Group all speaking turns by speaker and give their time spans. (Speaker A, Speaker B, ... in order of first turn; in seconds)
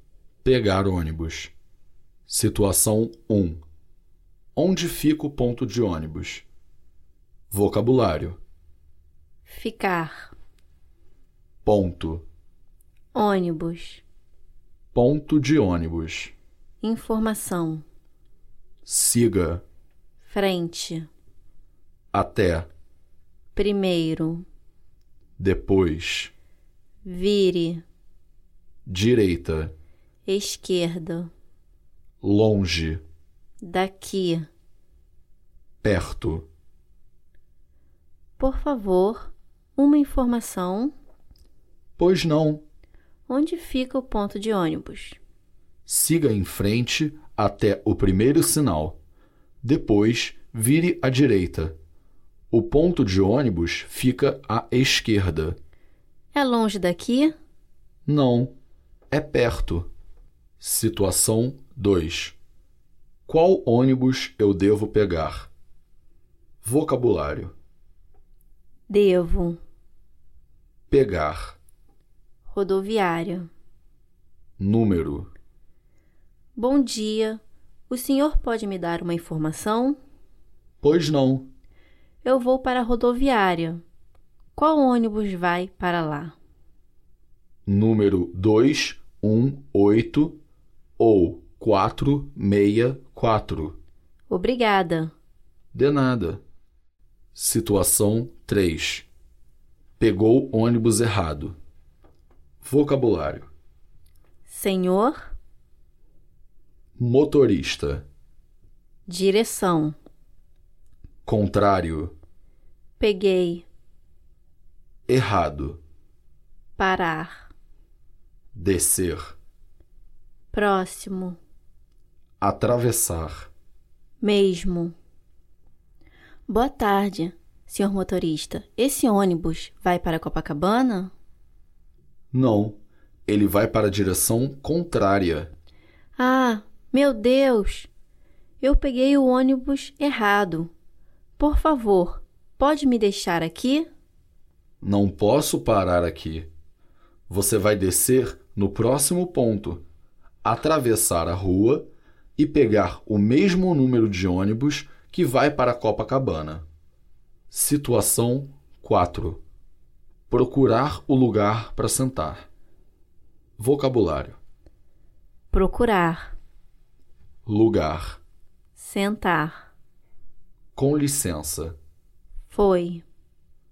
Speaker A: 0.4-1.5, 2.3-3.6, 4.5-6.5, 7.5-8.4, 11.6-12.2, 14.9-16.3, 18.9-19.6, 22.1-22.7, 25.4-26.3, 28.9-29.7, 32.2-33.0, 35.8-36.5, 42.0-42.6, 45.9-49.0, 49.6-51.8, 52.5-55.6, 58.0-58.5, 59.1-59.9, 60.6-62.4, 63.3-65.5, 66.6-67.5, 70.9-71.6, 74.6-75.3, 80.8-81.5, 87.7-90.4, 91.0-93.8, 95.7-96.4, 97.3-99.0, 100.0-101.5, 102.6-103.5, 107.0-108.0, 111.2-112.1, 115.1-115.8, 118.5-119.3, 122.4-123.5, 132.3-135.5, 144.8-146.5, 147.3-149.8, 150.4-156.6, 157.5-159.4, 160.3-162.5, 163.6-164.4, 167.4-168.2, 170.7-171.8
Speaker B: 9.4-10.3, 13.1-14.0, 16.8-17.8, 20.2-21.1, 23.5-24.4, 27.0-27.8, 30.2-31.3, 33.6-34.5, 38.4-40.9, 43.3-45.2, 56.3-57.3, 68.9-69.6, 72.5-73.5, 76.5-80.0, 82.2-83.8, 84.5-86.3, 94.3-95.1, 104.5-105.3, 109.1-110.0, 113.0-113.7, 116.8-117.5, 120.5-121.4, 124.2-124.9, 126.5-131.1, 136.2-137.9, 138.6-140.7, 141.4-143.9, 165.5-166.3, 168.8-169.7, 172.5-173.0